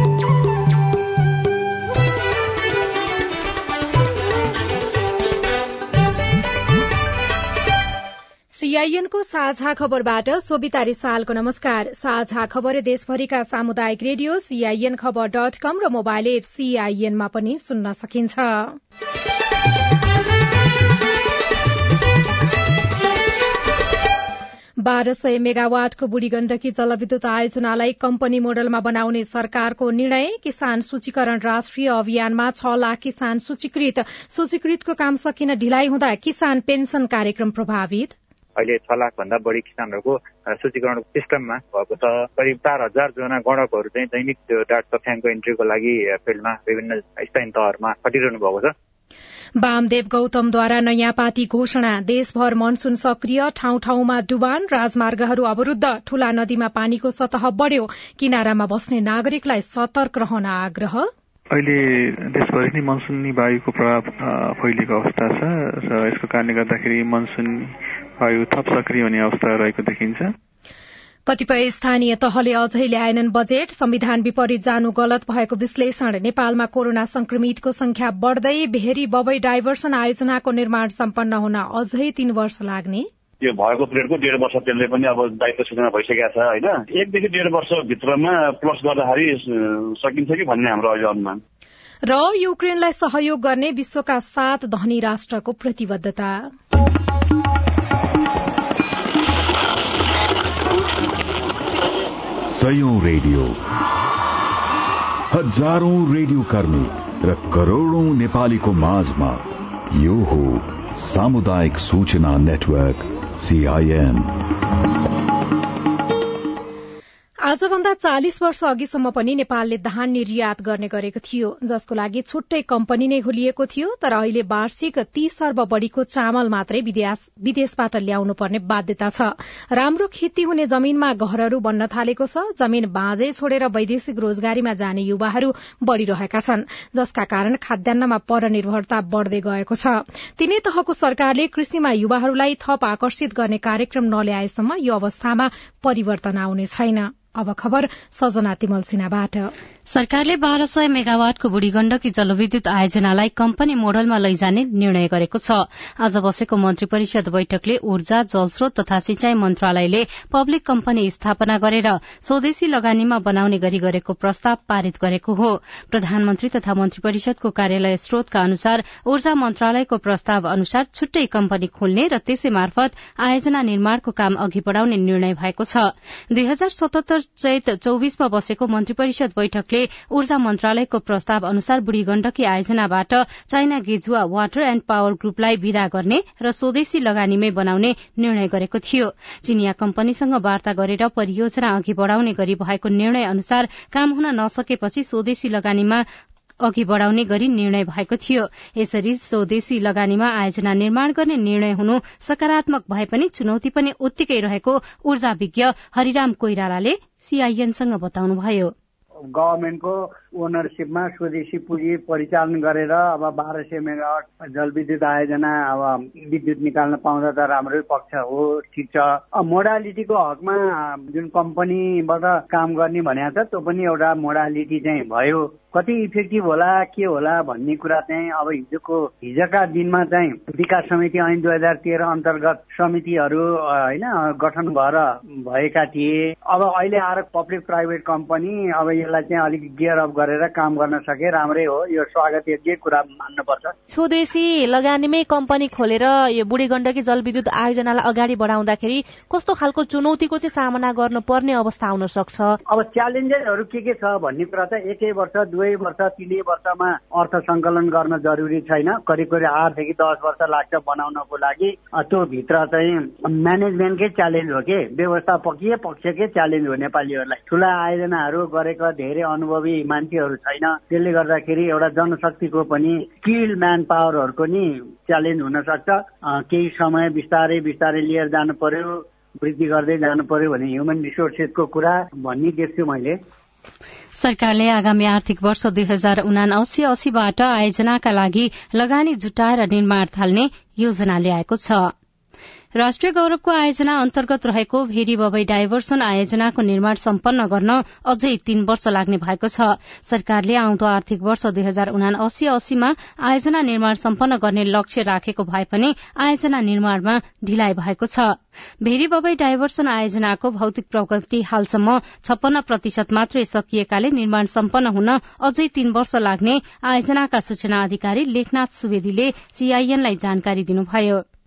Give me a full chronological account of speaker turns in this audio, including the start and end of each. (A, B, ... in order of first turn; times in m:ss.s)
0:08.5-0:18.8 A
0:24.8-0:38.1 A
0:38.6-0:48.7 B
0:49.6-1:01.1 A
1:01.5-1:10.3 C
1:11.3-1:23.1 A
1:23.4-1:31.4 D
1:32.1-1:36.4 A
1:42.5-1:43.6 E
1:45.3-1:54.4 E
1:57.4-2:29.5 A
2:29.9-3:16.0 F
3:16.6-3:28.7 F
3:29.3-4:03.7 G
4:03.9-4:12.6 H
4:12.7-4:43.2 G
4:44.2-4:51.9 F
4:52.8-5:21.2 F